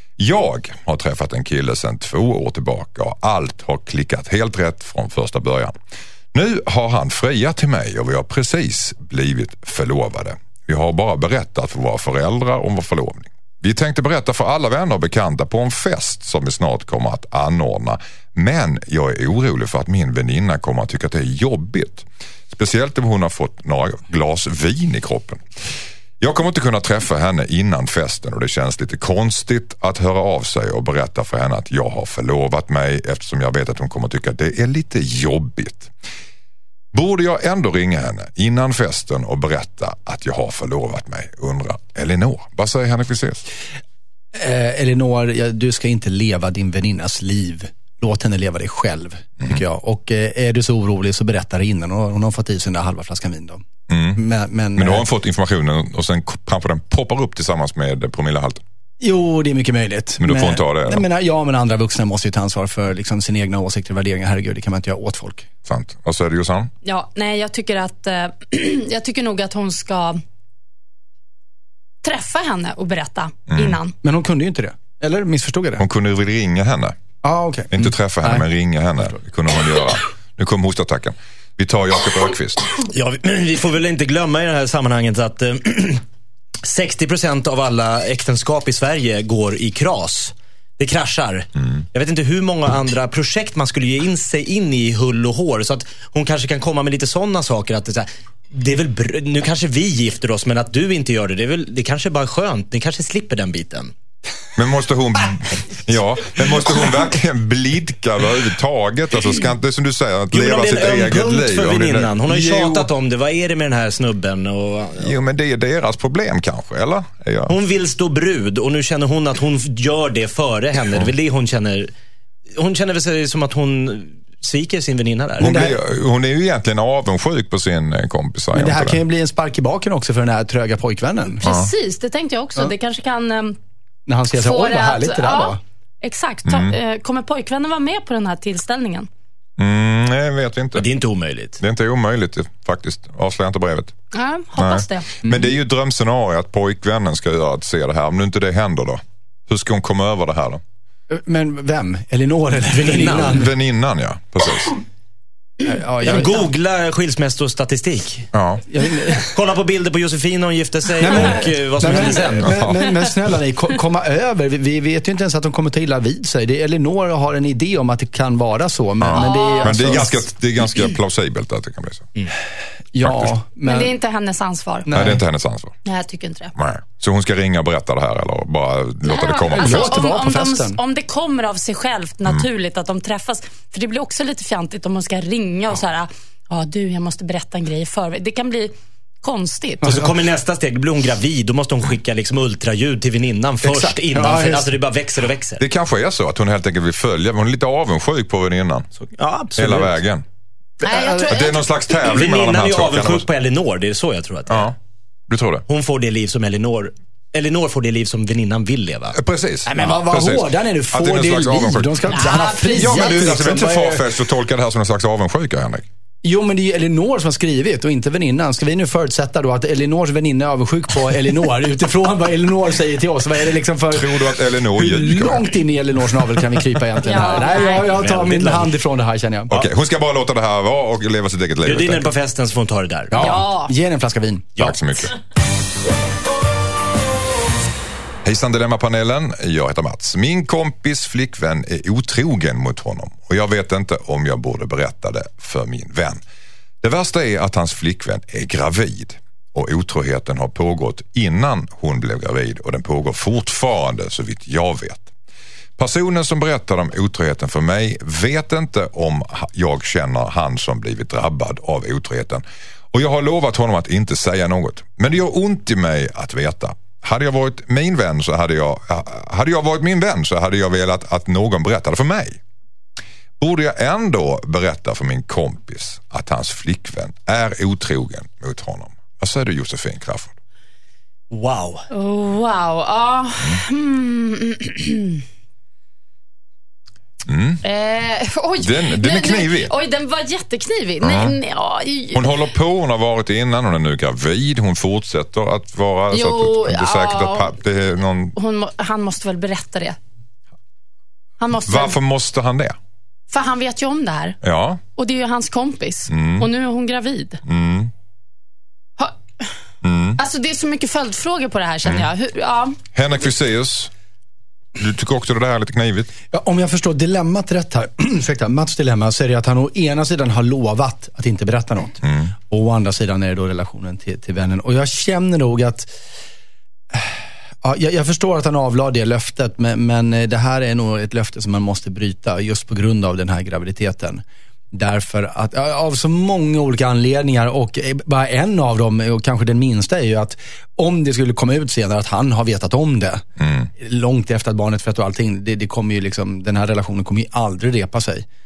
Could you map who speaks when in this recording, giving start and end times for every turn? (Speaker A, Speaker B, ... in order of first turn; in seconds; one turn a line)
Speaker A: 0.2-5.7
Speaker A: 6.3-25.4
Speaker A: 26.2-35.9
Speaker A: 36.9-43.4
Speaker B: 44.3-53.6
Speaker A: 53.9-54.2
Speaker B: 54.1-55.0
Speaker A: 54.8-58.6
Speaker B: 59.0-65.5
Speaker A: 60.2-61.0
Speaker A: 65.7-66.7
Speaker C: 66.8-70.2
Speaker C: 72.0-73.9
Speaker A: 73.5-73.8
Speaker B: 74.0-75.8
Speaker A: 75.8-76.9
Speaker B: 77.2-78.4
Speaker A: 77.7-82.7
Speaker D: 82.9-86.0
Speaker D: 86.6-103.9
Speaker A: 104.5-112.9
Speaker D: 110.3-115.2
Speaker A: 115.0-117.5
Speaker D: 117.5-121.9
Speaker D: 122.5-125.6
Speaker A: 125.4-129.0
Speaker B: 125.4-125.8
Speaker B: 128.5-131.4
Speaker C: 131.4-133.6
Speaker A: 131.4-131.7
Speaker B: 134.1-135.6
Speaker C: 134.3-139.1
Speaker A: 136.4-136.8
Speaker A: 139.6-140.9
Speaker D: 140.7-141.6
Speaker A: 141.6-143.9
Speaker C: 144.1-145.1
Speaker A: 144.6-150.6
Speaker B: 151.1-153.5
Speaker D: 152.7-153.5
Speaker A: 153.2-154.8
Speaker B: 155.6-156.4
Speaker D: 156.0-158.3
Speaker A: 158.3-158.6
Speaker B: 158.7-159.3
Speaker D: 159.3-162.6
Speaker B: 161.0-170.2
Speaker A: 162.4-162.8
Speaker A: 169.0-172.1
Speaker C: 169.1-170.1
Speaker B: 172.9-173.9
Speaker A: 173.0-173.3
Speaker C: 173.6-174.9
Speaker B: 174.8-175.2
Speaker A: 174.9-175.7
Speaker C: 175.8-176.5
Speaker A: 176.6-180.0
Speaker C: 179.0-189.9
Speaker B: 179.5-180.8
Speaker B: 189.8-190.1
Speaker D: 189.8-195.6
Speaker B: 193.8-194.7
Speaker A: 195.6-198.9
Speaker D: 199.1-199.9
Speaker A: 199.6-200.2
Speaker C: 200.8-201.7
Speaker B: 200.8-201.4
Speaker A: 201.1-203.2
Speaker D: 202.0-204.7
Speaker A: 204.5-204.8
Speaker A: 205.3-205.6
Speaker D: 205.7-210.0
Speaker A: 209.1-215.8
Speaker B: 209.7-214.1
Speaker C: 212.1-213.3
Speaker B: 216.2-229.5
Speaker A: 223.9-225.5
Speaker C: 227.0-228.0
Speaker D: 227.7-228.7
Speaker A: 229.5-232.1
Speaker D: 231.6-233.3
Speaker B: 233.1-234.5
Speaker C: 233.2-233.7
Speaker A: 234.6-235.1
Speaker A: 238.2-246.2
Speaker A: 246.8-255.1
Speaker A: 255.8-272.4
Speaker A: 273.4-280.3
Speaker D: 281.3-281.9
Speaker C: 281.9-285.2
Speaker A: 287.2-287.6
Speaker C: 287.6-292.3
Speaker A: 288.6-289.7
Speaker A: 291.0-291.4
Speaker A: 292.1-298.4
Speaker C: 296.1-297.5
Speaker C: 298.4-300.0
Speaker C: 301.4-302.0
Speaker A: 301.6-302.8
Speaker C: 303.3-304.4
Speaker A: 304.4-304.8
Speaker C: 304.9-307.4
Speaker A: 306.1-306.5
Speaker A: 307.4-307.9
Speaker C: 309.0-309.5
Speaker A: 309.8-310.2
Speaker C: 310.2-312.8
Speaker A: 312.9-313.9
Speaker A: 314.8-316.1
Speaker B: 316.3-325.9
Speaker A: 322.0-322.3
Speaker B: 326.9-343.2
Speaker A: 343.4-343.7
Speaker B: 343.8-348.2